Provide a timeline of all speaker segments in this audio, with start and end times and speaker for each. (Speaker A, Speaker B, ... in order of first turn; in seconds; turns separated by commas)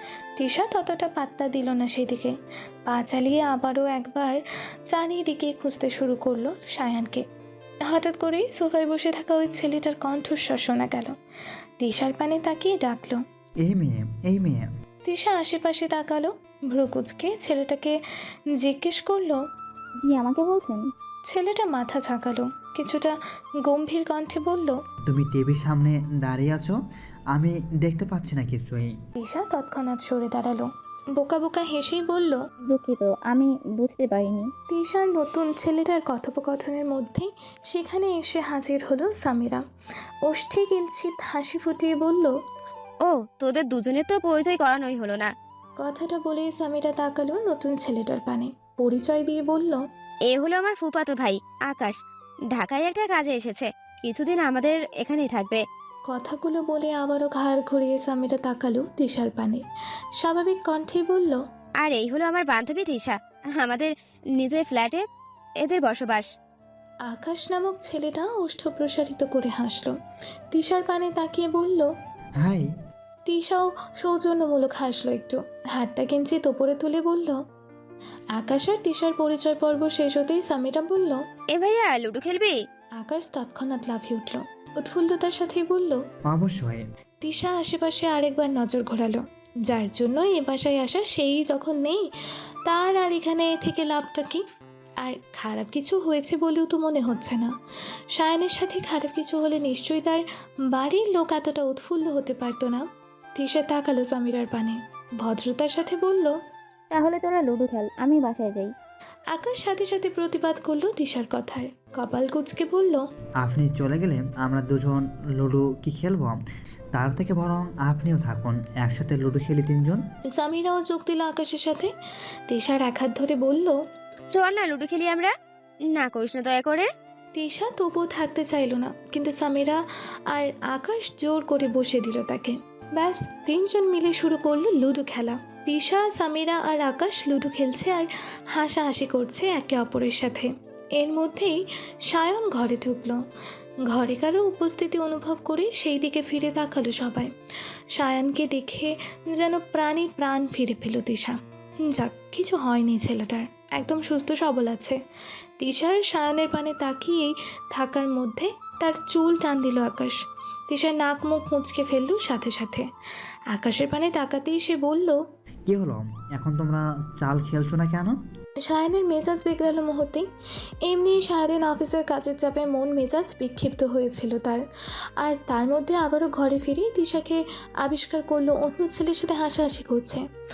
Speaker A: 0.4-7.2, Speaker A: 7.8-11.2, Speaker A: 11.8-13.2, Speaker B: 13.6-14.7, Speaker A: 15.0-18.0, Speaker A: 18.5-19.4, Speaker C: 20.0-20.9, Speaker A: 21.2-24.8, Speaker B: 25.1-26.8, Speaker B: 27.3-29.0, Speaker A: 29.2-32.5, Speaker C: 32.7-34.5, Speaker A: 34.7-39.6, Speaker A: 40.2-42.4, Speaker D: 43.0-45.3, Speaker A: 45.8-49.9, Speaker D: 50.3-52.0, Speaker D: 52.5-55.6, Speaker A: 56.1-59.6, Speaker A: 60.1-61.4, Speaker D: 61.8-65.0, Speaker D: 65.6-66.3, Speaker A: 67.0-70.0, Speaker A: 70.5-71.9, Speaker B: 72.4-72.7, Speaker A: 73.2-77.4, Speaker A: 78.3-81.2, Speaker D: 81.5-82.6, Speaker A: 83.0-86.0, Speaker B: 86.2-86.8, Speaker A: 87.2-92.1, Speaker A: 92.7-94.4, Speaker A: 95.0-97.5, Speaker A: 98.1-106.4, Speaker C: 106.9-108.7, Speaker A: 109.3-113.1, Speaker B: 113.4-116.4, Speaker B: 116.9-120.0, Speaker A: 120.3-121.9, Speaker A: 122.5-123.8, Speaker D: 124.3-125.3, Speaker D: 125.9-126.9, Speaker A: 127.3-143.2, Speaker A: 143.8-147.3, Speaker A: 147.9-155.0, Speaker A: 155.6-162.9, Speaker A: 163.5-165.2, Speaker B: 165.7-168.2, Speaker A: 168.6-170.3, Speaker A: 170.8-174.6, Speaker A: 175.2-180.2